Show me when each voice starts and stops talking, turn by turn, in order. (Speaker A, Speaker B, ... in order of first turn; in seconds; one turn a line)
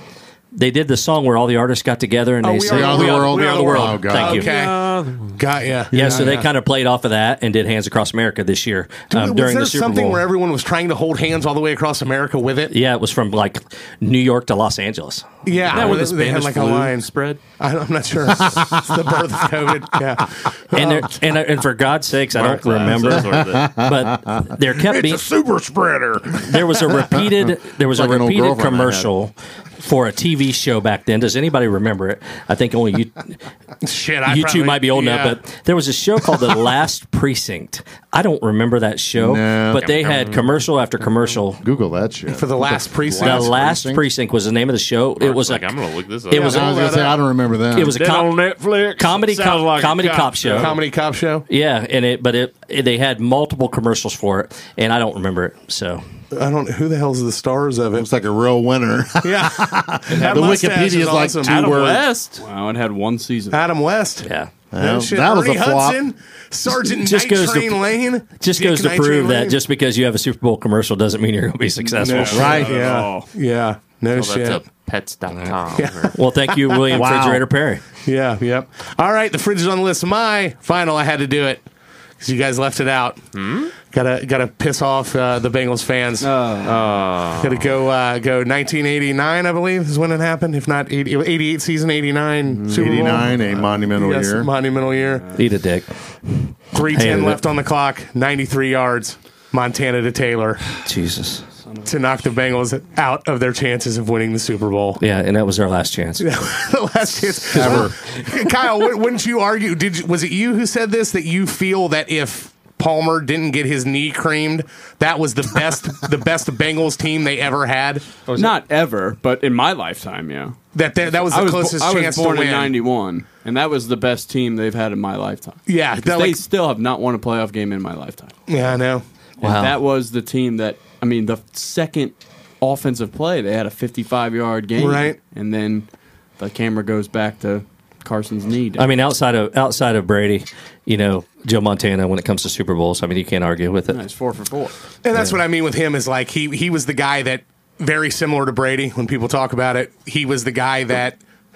Speaker A: 0.5-4.5
Speaker B: 2.4-6.4
Speaker C: 2.6-4.5
Speaker D: 4.2-5.4
Speaker A: 5.9-10.2
Speaker C: 6.0-6.4
Speaker B: 9.1-12.7
Speaker A: 12.7-15.9
Speaker B: 15.4-17.1
Speaker D: 15.7-17.4
Speaker B: 17.6-21.2
Speaker C: 18.3-19.0
Speaker A: 20.7-25.2
Speaker D: 22.3-23.7
Speaker C: 22.9-29.1
Speaker A: 26.4-33.4
Speaker B: 33.8-35.4
Speaker A: 34.2-41.6
Speaker C: 39.1-39.8
Speaker D: 39.8-40.5
Speaker C: 41.6-44.0
Speaker B: 42.3-43.5
Speaker A: 43.1-45.7
Speaker D: 45.2-46.7
Speaker A: 46.3-46.7
Speaker B: 46.3-47.2
Speaker C: 46.4-48.0
Speaker A: 47.7-48.4
Speaker D: 47.8-50.8
Speaker A: 49.0-50.8
Speaker B: 50.5-51.4
Speaker A: 51.5-56.0
Speaker B: 56.3-58.1
Speaker C: 57.9-62.0
Speaker B: 59.2-61.7
Speaker D: 61.4-62.4
Speaker E: 62.4-63.6
Speaker B: 63.5-64.3
Speaker A: 64.2-64.5
Speaker C: 64.7-66.0
Speaker B: 64.8-69.5
Speaker A: 66.7-72.6
Speaker E: 71.8-73.3
Speaker B: 72.0-74.6
Speaker C: 72.3-72.8
Speaker D: 74.1-76.2
Speaker B: 75.8-76.1
Speaker A: 76.1-77.8
Speaker C: 76.9-77.4
Speaker B: 78.0-81.6
Speaker B: 82.2-83.2
Speaker D: 83.3-83.7
Speaker B: 83.8-86.3
Speaker E: 86.2-86.9
Speaker D: 86.6-87.7
Speaker B: 87.4-93.3
Speaker E: 92.5-93.9
Speaker C: 92.7-94.5
Speaker B: 93.9-95.3
Speaker E: 95.0-95.4
Speaker A: 95.3-97.4
Speaker B: 96.7-100.7
Speaker A: 100.8-101.4
Speaker E: 101.6-101.9
Speaker B: 101.9-105.0
Speaker A: 105.0-106.2
Speaker B: 106.2-118.2
Speaker A: 107.5-107.9
Speaker C: 107.5-107.9
Speaker A: 118.3-118.5
Speaker E: 118.3-120.6
Speaker B: 120.7-122.8
Speaker E: 121.2-128.3
Speaker B: 125.7-126.4
Speaker B: 128.5-129.0
Speaker E: 129.4-138.9
Speaker A: 129.4-129.7
Speaker B: 134.8-135.2
Speaker A: 138.8-144.0
Speaker E: 143.9-144.7
Speaker B: 145.0-151.2